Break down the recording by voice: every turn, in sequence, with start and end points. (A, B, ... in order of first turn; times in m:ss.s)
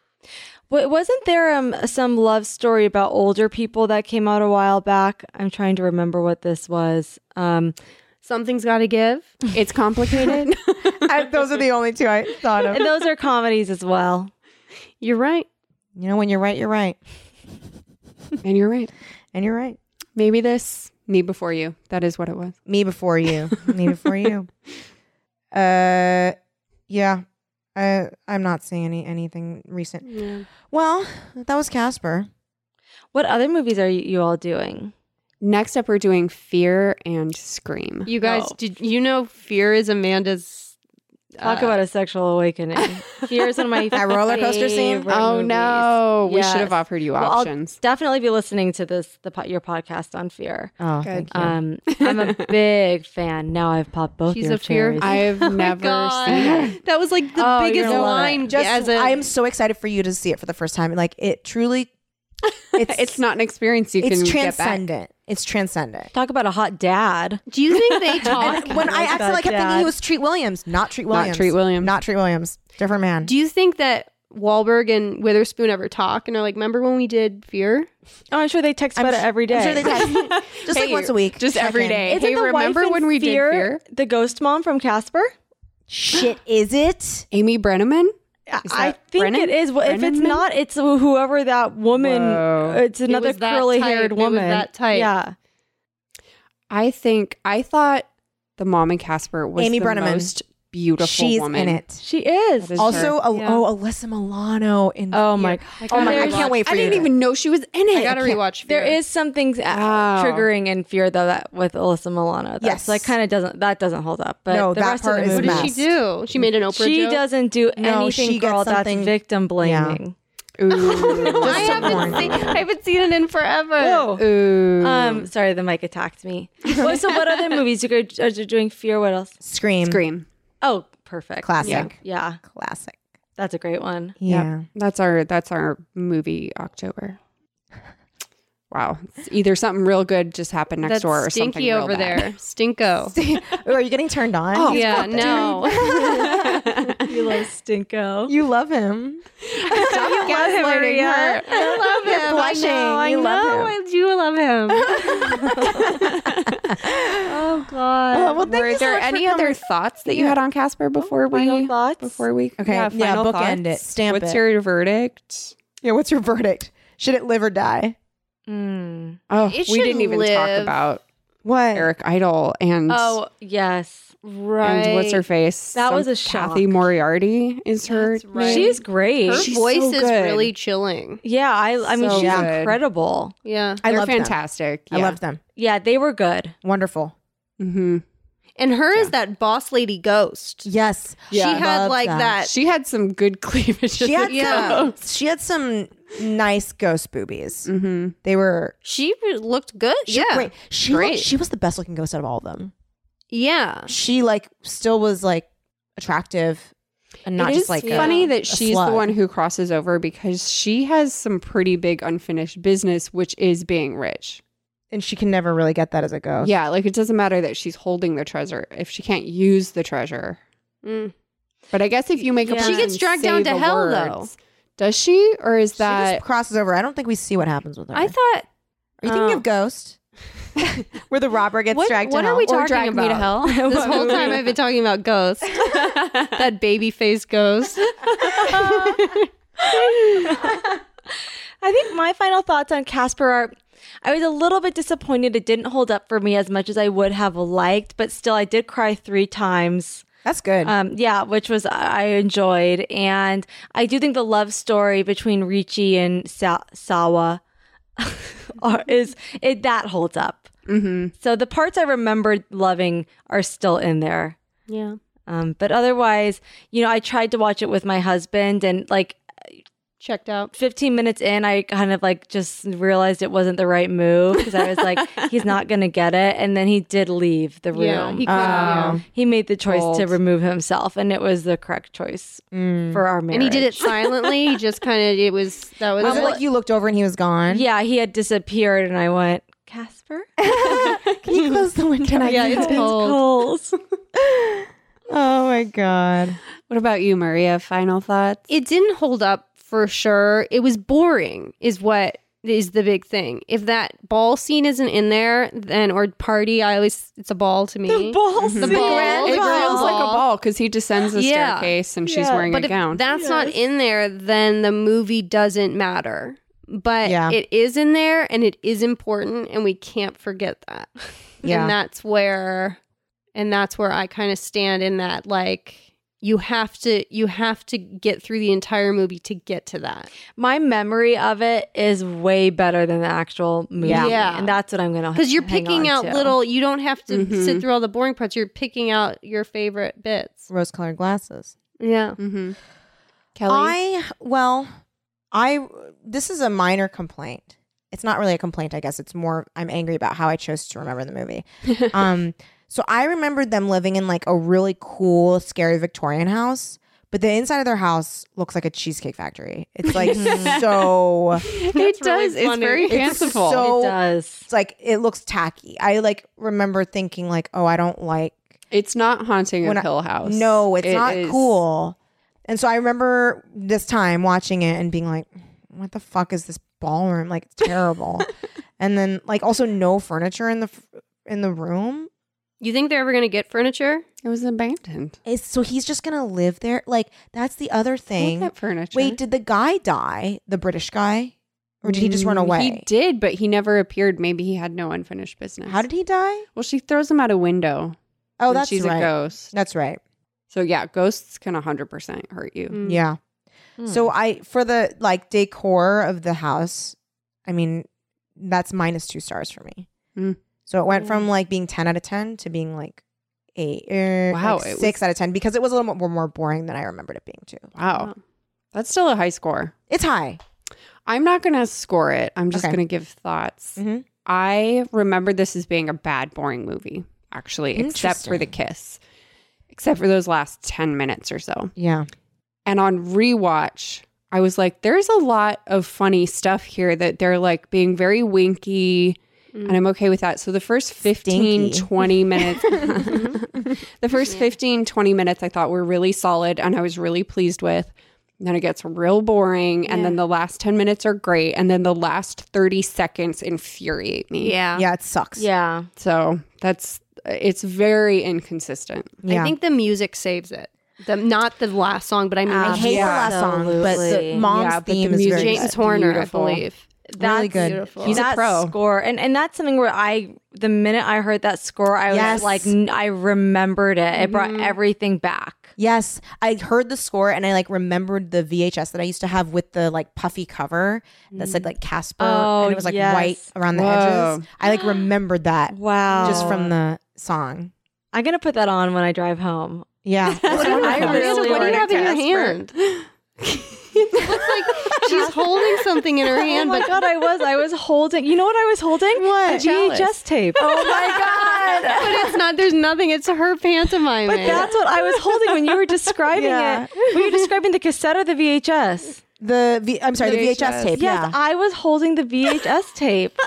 0:00.7-0:07.7 A
0:08.2-0:09.4 B
0:09.5-0:11.3 C
0:11.0-0:12.9 D
0:12.7-0:14.3 A
0:15.0-0:15.5 B
0:16.0-0:17.0 D
0:18.4-0:18.9 C
0:19.3-0:19.8 D
0:20.2-0:22.6 C
0:22.6-0:24.5 D
0:25.5-0:26.4 D
0:26.9-0:27.2 D
0:27.7-0:30.1 D
0:30.0-0:30.5 B
0:30.6-0:32.3 D
0:33.1-0:34.9 A
0:35.4-0:38.1 C
0:38.1-0:40.7 B
0:38.2-0:38.5 A
0:41.4-0:41.8 B
0:41.4-0:50.7 A
0:43.9-0:45.1 D
0:45.1-0:47.8 C
0:50.8-0:51.6 D
0:51.0-0:51.3 C
0:51.3-0:55.2 A
0:51.9-0:52.4 C
0:54.3-0:59.3 B
0:55.0-0:56.7 C
0:57.3-0:58.5 A
0:57.8-1:01.9 D
1:02.7-1:04.8 C
1:02.7-1:03.2 D
1:04.0-1:06.1 D
1:06.1-1:09.9 A
1:07.5-1:08.9 B
1:08.4-1:13.3 D
1:11.1-1:12.0 C
1:13.2-1:17.9 B
1:18.3-1:19.9 A
1:19.0-1:22.2 D
1:19.8-1:23.8 C
1:22.1-1:25.3 A
1:25.9-1:27.2 D
1:27.3-1:28.1 C
1:28.5-1:35.3 A
1:28.6-1:30.4 C
1:32.0-1:32.8 C
1:33.0-1:35.1 B
1:36.7-1:38.0 C
1:38.6-1:41.8 C
1:39.6-1:40.3 D
1:41.0-1:42.0 D
1:42.0-1:43.1 A
1:42.6-1:43.2 C
1:42.8-1:47.1 D
1:43.3-1:43.6 B
1:45.1-1:46.5 A
1:45.8-1:46.5 B
1:45.9-1:48.4 C
1:47.9-1:49.0 B
1:48.6-1:55.8 A
1:49.7-1:50.5 C
1:52.6-1:53.1 D
1:54.5-1:55.8 D
1:55.3-1:57.2 B
1:56.7-2:00.1 A
1:57.8-2:00.0 D
2:00.6-2:02.4 C
2:00.7-2:04.1 B
2:01.4-2:02.6 D
2:03.8-2:09.3 A
2:04.2-2:05.3 C
2:09.4-2:10.0 D
2:09.8-2:10.2 C
2:10.6-2:12.4 A
2:11.4-2:13.0 D
2:11.6-2:11.9 C
2:13.4-2:14.2 A
2:14.2-2:14.6 D
2:14.3-2:17.2 C
2:18.7-2:22.3 C
2:20.8-2:23.2 B
2:23.1-2:26.9 D
2:24.5-2:27.0 C
2:24.7-2:26.3 B
2:27.0-2:28.3 A
2:28.3-2:29.3 D
2:29.5-2:31.4 C
2:29.6-2:32.0 A
2:29.9-2:30.4 D
2:31.4-2:33.7 D
2:31.4-2:35.4 B
2:34.7-2:37.4 D
2:35.4-2:36.1 A
2:37.2-2:38.4 A
2:38.1-2:40.4 D
2:38.4-2:45.5 C
2:41.0-2:42.2 A
2:42.6-2:44.4 D
2:45.8-2:48.0 D
2:48.5-2:49.2 A
2:49.3-2:51.0 C
2:49.5-2:50.8 B
2:51.4-2:51.9 D
2:51.7-2:53.2 C
2:52.9-2:54.1 A
2:54.2-2:55.2 B
2:54.6-3:00.5 C
2:55.7-2:56.8 A
2:57.9-3:01.2 B
2:58.4-2:59.5 A
3:01.2-3:03.3 A
3:02.0-3:02.8 C
3:02.0-3:02.5 D
3:03.4-3:03.8 B
3:03.8-3:04.4 D
3:03.9-3:05.2 C
3:04.9-3:05.4 D
3:05.6-3:06.5 A
3:06.6-3:07.1 D
3:07.6-3:08.0 C
3:08.6-3:10.7 B
3:10.6-3:12.4 D
3:11.3-3:11.6 C
3:11.3-3:12.5 B
3:12.4-3:14.9 C
3:14.0-3:17.7 D
3:14.2-3:14.9 B
3:17.6-3:18.1 C
3:18.2-3:18.7 D
3:18.8-3:21.3 B
3:20.1-3:22.7 D
3:23.3-3:23.9 B
3:23.9-3:26.7 D
3:27.2-3:29.1 D
3:27.4-3:34.4 C
3:27.8-3:28.3 B
3:34.9-3:36.5 D
3:36.4-3:40.4 C
3:40.8-3:41.1 B
3:41.7-3:46.2 C
3:42.4-3:42.9 A
3:42.5-3:44.3 B
3:45.8-3:48.1 D
3:47.9-3:48.4 B
3:49.0-3:50.0 D
3:49.0-3:49.4 A
3:50.6-3:52.5 D
3:51.7-3:59.3 B
3:52.4-3:54.4 C
3:53.4-3:54.5 A
3:58.1-3:59.0 A
3:59.8-4:00.1 B
4:00.2-4:00.6 A
4:01.6-4:10.0 A
4:10.2-4:10.7 D
4:10.6-4:17.4 A
4:18.0-4:20.5 A
4:20.7-4:21.1 C
4:21.2-4:24.4 A
4:24.7-4:25.0 B
4:25.3-4:29.2 A
4:30.0-4:30.5 B
4:30.5-4:44.2 A
4:37.7-4:39.0 B
4:38.2-4:39.0 C
4:38.2-4:39.0 D
4:39.6-4:40.2 C
4:42.5-4:43.0 D
4:43.3-4:46.4 B
4:46.0-4:47.6 D
4:46.0-4:46.4 A
4:47.5-4:51.6 A
4:50.4-4:52.9 D
4:52.2-4:53.2 B
4:52.2-4:53.8 A
4:54.2-4:56.4 D
4:56.7-4:58.4 C
4:58.5-5:10.2 B
5:07.8-5:10.0 A
5:08.4-5:13.0 C
5:08.7-5:09.5 D
5:11.1-5:11.7 B
5:12.0-5:12.5 A
5:12.5-5:22.8 B
5:13.1-5:13.6 A
5:17.0-5:17.4 D
5:21.4-5:21.7 D
5:23.3-5:30.1 B
5:30.4-5:36.4 A
5:33.8-5:34.2 D
5:33.9-5:34.6 B
5:35.1-5:40.5 B
5:37.1-5:37.6 C
5:40.5-5:41.5 D
5:41.8-5:42.2 B
5:42.2-5:42.6 C
5:43.4-5:43.8 C
5:43.5-5:44.7 D
5:45.3-6:01.4 D
5:59.9-6:00.8 C
6:00.1-6:00.6 A
6:01.4-6:03.7 C
6:01.5-6:03.3 B
6:02.9-6:08.4 D
6:03.6-6:04.5 A
6:08.7-6:11.6 C
6:09.6-6:12.0 D
6:12.5-6:22.1 D
6:22.6-6:24.0 B
6:24.2-6:25.2 C
6:25.2-6:32.8 D
6:28.2-6:29.2 C
6:31.8-6:35.8 C
6:35.6-6:36.4 D
6:36.6-6:38.0 C
6:38.4-6:40.0 D
6:38.5-6:39.5 C
6:40.5-6:42.8 C
6:42.7-6:43.0 B
6:42.8-6:43.2 D
6:43.8-6:44.1 A
6:43.8-6:49.9 D
6:50.7-6:53.0 D
6:51.0-6:51.2 B
6:53.6-6:57.7 D
6:54.3-6:55.0 C
6:57.8-6:58.1 C
6:58.7-6:59.7 C
6:59.9-7:00.4 D
7:01.0-7:09.0 C
7:03.8-7:04.0 D
7:07.8-7:08.5 D
7:09.7-7:11.7 C
7:11.8-7:12.1 D
7:12.6-7:34.6 C
7:19.5-7:19.8 B
7:21.2-7:22.0 D
7:22.6-7:22.8 D
7:23.0-7:23.4 B
7:24.3-7:24.5 B
7:29.8-7:30.2 B
7:34.4-7:34.8 B
7:34.7-7:35.4 D
7:35.4-7:35.9 A
7:36.0-7:39.2 C
7:39.2-7:39.5 D
7:39.3-7:43.3 B
7:42.5-7:44.5 A
7:42.6-7:45.7 D
7:42.8-7:43.3 C
7:43.8-7:46.6 C
7:45.3-7:46.9 B
7:47.1-7:55.7 A
7:47.2-7:47.8 D
7:47.5-7:48.2 B
7:48.0-7:48.7 C
7:52.1-7:52.7 D
7:54.2-7:54.8 B
7:55.8-8:07.7 D
8:01.3-8:01.6 B
8:02.2-8:03.4 A
8:03.7-8:04.4 C
8:05.7-8:06.7 A
8:06.2-8:06.4 B
8:08.1-8:12.5 A
8:10.0-8:12.5 D
8:10.5-8:11.3 C
8:10.5-8:12.7 B
8:13.0-8:13.8 C
8:13.9-8:16.9 B
8:14.2-8:15.3 D
8:15.1-8:15.4 A
8:16.3-8:22.3 A
8:19.1-8:19.6 D
8:19.4-8:20.1 B
8:20.6-8:22.3 D
8:22.0-8:24.7 B
8:24.3-8:29.2 A
8:26.3-8:26.9 D
8:29.4-8:31.3 D
8:30.2-8:30.9 C
8:31.0-8:33.4 A